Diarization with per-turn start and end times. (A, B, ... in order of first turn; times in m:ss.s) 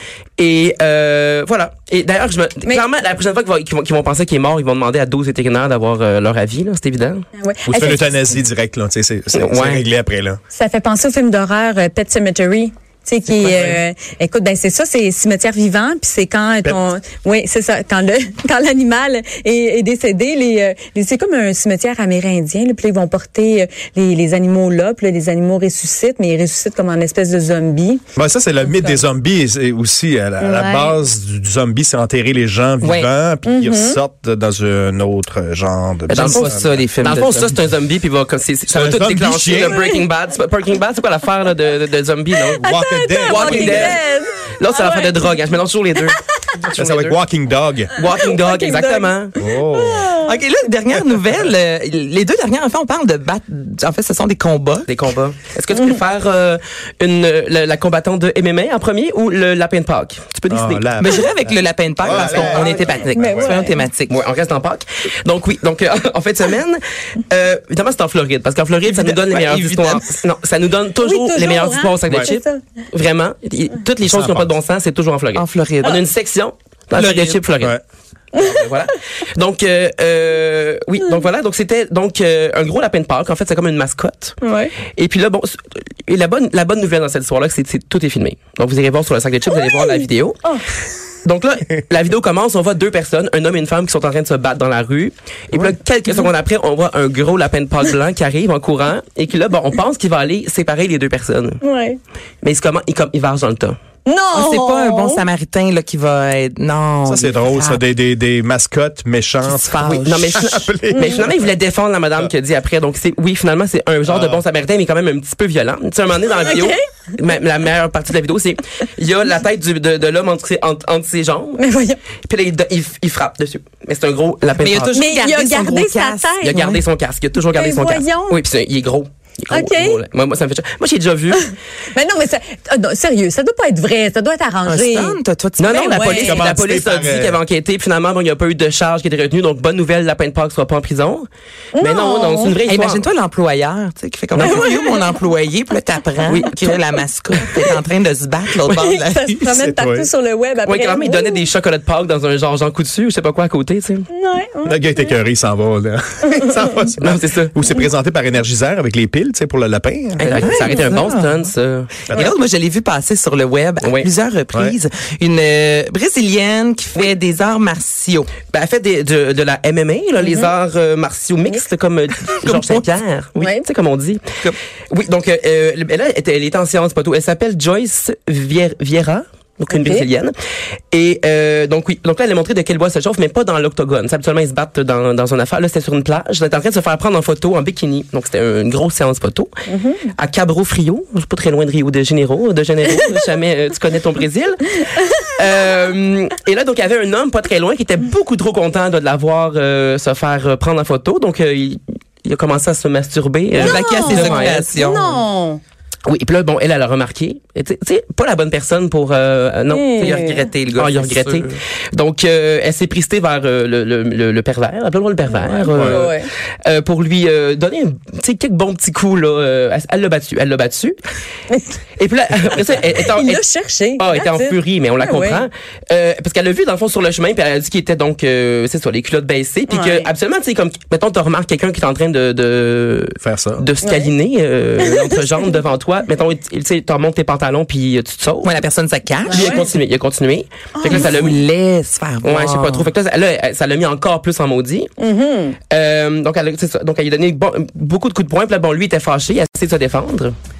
0:00.4-0:07.2 A
0:07.4-0:08.2 B
0:07.6-0:10.4 C
0:09.3-0:09.8 A
0:10.5-0:28.0 B
0:13.3-0:13.8 A
0:28.2-0:36.8 C
0:28.6-0:29.0 B
0:30.4-0:31.0 B
0:32.8-0:33.1 D
0:33.4-0:34.0 B
0:36.1-0:37.5 D
0:36.1-0:42.6 A
0:38.7-0:39.8 C
0:39.6-0:40.0 B
0:42.5-0:45.1 B
0:42.6-0:44.0 C
0:43.2-0:44.0 A
0:44.6-0:47.2 A
0:46.8-0:47.9 C
0:48.0-0:49.3 A
0:48.0-0:50.4 B
0:49.4-0:50.2 C
0:50.2-0:54.9 D
0:54.8-1:01.0 A
1:00.5-1:03.5 C
1:01.0-1:04.2 D
1:02.3-1:03.9 B
1:04.1-1:17.8 A
1:08.8-1:10.1 D
1:11.0-1:12.6 B
1:14.0-1:14.5 C
1:15.3-1:16.0 D
1:16.9-1:17.4 D
1:18.3-1:24.4 A
1:24.4-1:24.7 B
1:24.9-1:30.4 A
1:29.5-1:30.6 B
1:31.2-1:41.6 A
1:41.6-1:42.0 B
1:42.4-1:43.8 A
1:44.0-1:45.2 B
1:44.3-1:47.8 D
1:47.0-1:51.5 C
1:49.4-1:50.2 D
1:49.8-2:01.6 A
1:50.9-1:51.2 B
1:54.0-1:54.4 C
1:56.4-1:56.8 B
2:01.6-2:02.0 B
2:02.3-2:05.0 A
2:04.5-2:06.8 D
2:04.9-2:06.6 B
2:06.4-2:11.4 A
2:07.5-2:08.4 B
2:09.5-2:10.0 B
2:11.3-2:15.2 B
2:14.6-2:16.2 D
2:15.6-2:21.3 A
2:15.8-2:16.4 B
2:16.2-2:17.4 C
2:21.8-2:22.6 B
2:21.8-2:23.0 A
2:22.6-2:29.5 D
2:24.3-2:24.7 A
2:24.4-2:25.2 B
2:26.2-2:26.9 A
2:28.7-2:31.5 B
2:29.5-2:30.1 C
2:30.6-2:34.1 A
2:34.1-2:35.1 B
2:34.6-2:40.7 C
2:37.0-2:37.6 A
2:40.2-2:42.0 A
2:40.3-2:41.4 D
2:42.1-2:48.3 D
2:43.8-2:44.1 A
2:48.4-2:54.2 A
2:50.2-2:50.5 B
2:52.4-2:52.9 D
2:53.4-2:53.7 B
2:54.9-3:00.3 A
2:59.7-3:00.1 B
3:00.9-3:09.5 A
3:09.7-3:10.1 B
3:10.1-3:24.7 A
3:23.6-3:25.2 D
3:23.6-3:25.6 B
3:26.0-3:41.0 A
3:29.7-3:30.4 B
3:30.0-3:31.6 D
3:35.4-3:36.3 B
3:35.7-3:36.1 C
3:42.0-3:43.4 A
3:43.1-3:45.5 B
3:44.0-3:58.6 A
3:49.7-3:50.1 B
3:53.2-3:53.6 C
3:53.8-3:54.1 B
3:54.8-3:55.6 B
3:58.4-3:59.6 D
3:59.3-3:59.7 B
3:59.3-4:01.4 A
4:00.7-4:01.3 B
4:00.8-4:02.9 D
4:02.2-4:04.9 A
4:05.0-4:05.6 B
4:05.7-4:10.3 A